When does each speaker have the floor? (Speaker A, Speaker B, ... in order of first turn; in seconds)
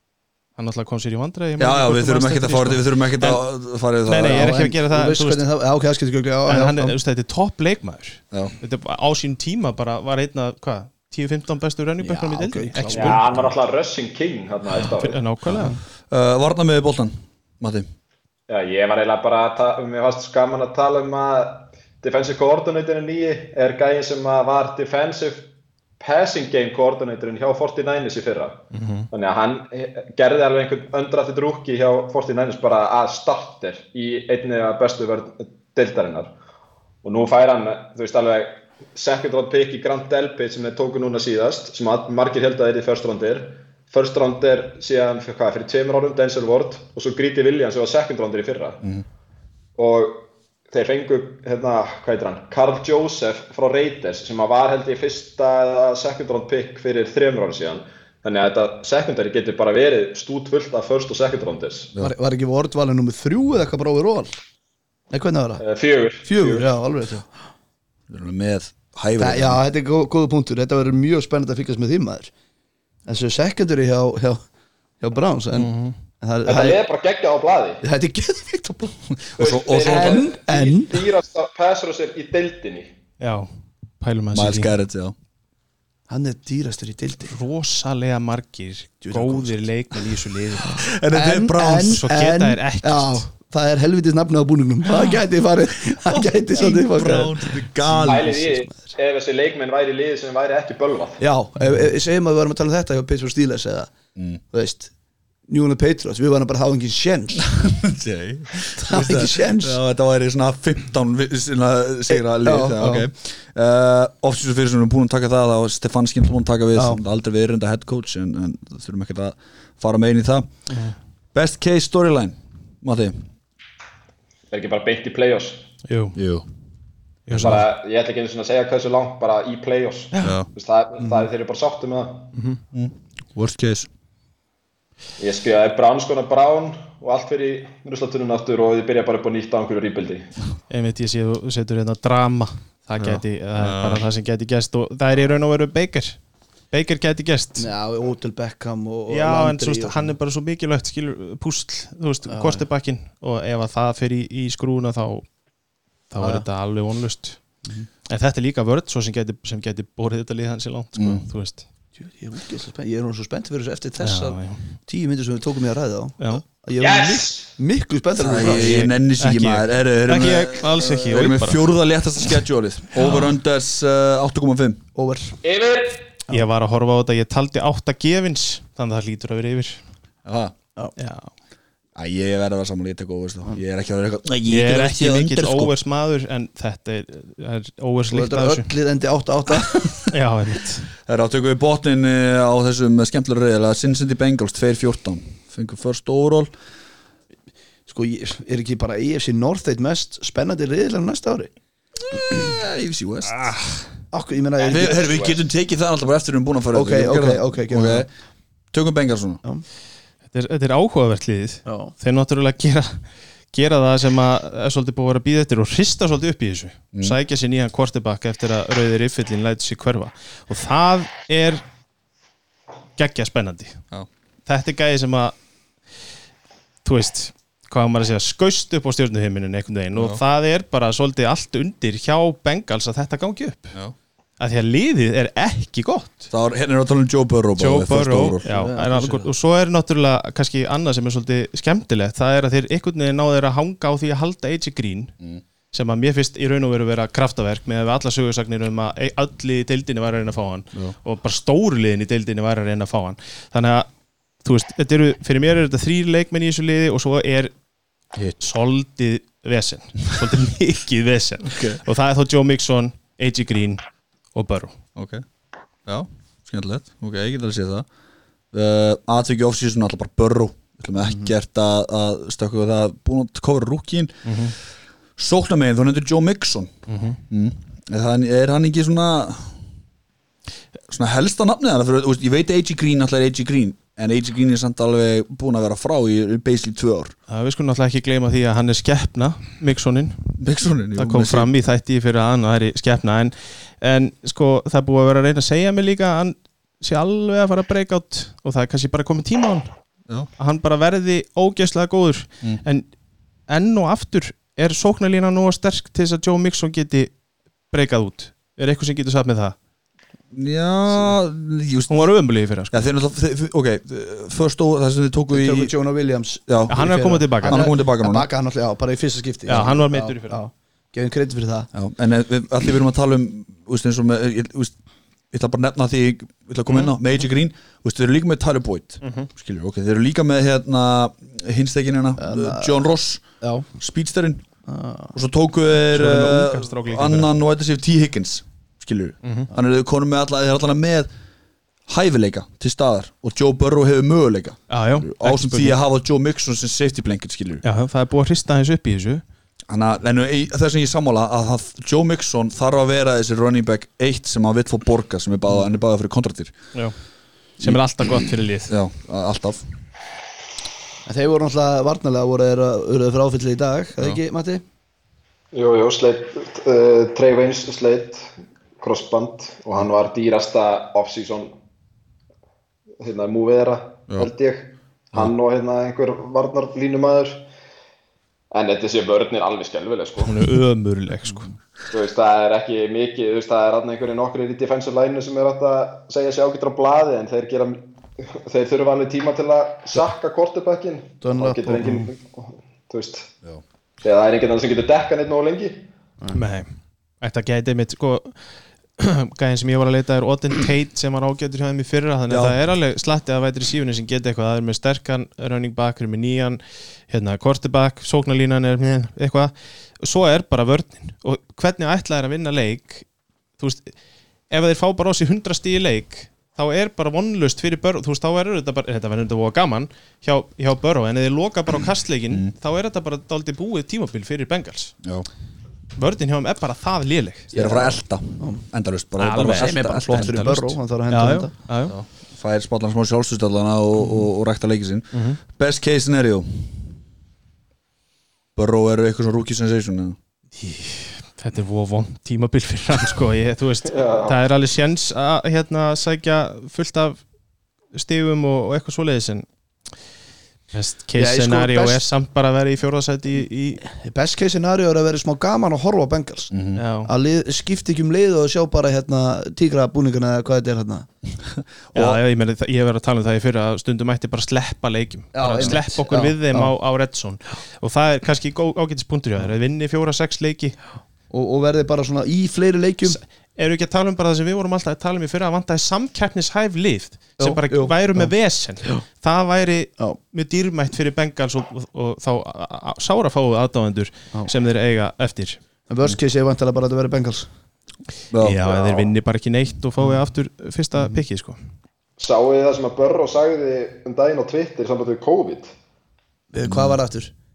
Speaker A: 0.6-3.4, 4.0-5.5, 6.5-13.2, 14.8-15.7, 28.7-29.1, 75.5-75.9, 83.2-83.5, 84.0-84.7, 87.3-90.8, 91.7-93.3, 125.8-126.2, 127.3-127.7, 132.3-132.6, 140.7-146.2, 146.7-147.7, 149.1-155.2, 156.1-157.4, 158.1-161.6, 164.0-164.6, 168.4-171.7, 176.3-179.8, 181.0-181.3, 184.4-188.7, 190.1-190.9, 210.3-213.0, 213.5-221.6, 223.0-223.8, 224.5-225.3, 226.8-233.7, 234.4-236.3, 237.6-245.1, 245.7-253.9, 254.4-257.5, 258.4-263.8, 264.3-264.8, 274.2-274.5, 276.9-277.2, 287.3-290.3, 290.9-299.7, 300.4-302.9, 303.5-307.1, 307.7-309.5, 311.9-312.8, 316.7-317.8, 319.5-320.4, 329.0-329.3, 335.9-337.3, 339.2-339.5, 344.7-345.8, 347.6-349.2, 357.6-358.7, 380.2-381.5, 396.3-396.7, 397.2-398.4, 399.0-413.1, 413.6-413.9, 414.5-424.9, 425.9-427.5, 429.2-431.9, 435.1-435.4, 440.6-447.2, 447.9-449.5, 450.7-453.8, 456.8-457.1, 461.9-470.8, 473.0-485.6, 488.4-491.6
Speaker B: 1.6-4.5, 16.1-17.9, 68.1-69.6, 79.1-80.2, 84.3-85.1, 90.7-92.0, 94.9-95.2, 96.1-98.4, 107.4-120.5, 121.3-123.2, 126.1-126.4, 127.3-127.7, 130.2-130.5, 132.7-133.9, 143.0-144.1, 160.9-161.3, 168.2-174.8, 180.2-180.5, 181.9-185.7, 191.1-196.5, 202.1-203.5, 204.7-208.1, 208.7-209.4, 229.9-230.2, 236.3-238.4, 261.4-261.8, 264.9-265.2, 265.9-267.9, 268.5-274.4, 275.2-276.8, 277.3-279.6, 280.9-287.1, 290.4-291.5, 310.3-312.1, 312.7-315.7, 316.5-316.8, 317.4-318.3, 321.7-324.7, 325.3-333.2, 333.8-334.4, 335.1-341.1, 341.9-347.6, 349.7-356.6, 357.6-359.6, 402.3-402.6, 427.5-430.4, 431.9-436.9, 438.6-440.2, 456.5-456.8, 461.6-462.2, 488.3-488.7, 496.6-497.0
Speaker C: 4.2-7.0, 12.0-13.5, 62.0-64.3, 65.1-65.6, 66.2-67.2, 69.2-72.3, 73.1-74.4, 75.0-76.8, 77.8-78.9, 79.8-81.1, 86.1-87.3, 89.0-89.6, 91.1-98.9, 101.2-103.9, 104.5-104.9, 105.5-107.5, 108.8-109.8, 112.1-113.1, 116.7-117.0, 147.6-150.1, 152.2-152.6, 156.2-156.4, 162.0-168.9, 174.9-175.4, 188.1-190.0, 197.9-201.5, 204.1-205.1, 206.7-208.1, 211.7-211.9, 238.4-239.3, 315.3-321.7, 332.2-332.7, 333.4-333.7, 334.7-335.1, 361.1-364.6, 391.2-392.1, 427.5-428.6, 429.4-431.5, 451.2-452.0, 453.8-456.5, 457.0-461.1, 465.3-466.7, 471.3-473.2, 477.4-478.3, 485.9-487.5, 496.5-497.3
Speaker D: 12.9-15.2, 18.5-36.3, 37.0-48.8, 49.8-61.9, 65.6-66.7, 76.5-77.8, 79.4-82.9, 98.0-101.2, 124.5-125.7, 127.4-132.3, 135.2-140.3, 166.8-167.5, 175.4-176.0, 204.6-205.4, 365.5-368.3, 368.8-371.5, 373.0-377.4, 378.5-380.6, 381.9-393.3, 394.0-395.8, 443.9-444.4, 488.6-489.1, 492.2-495.7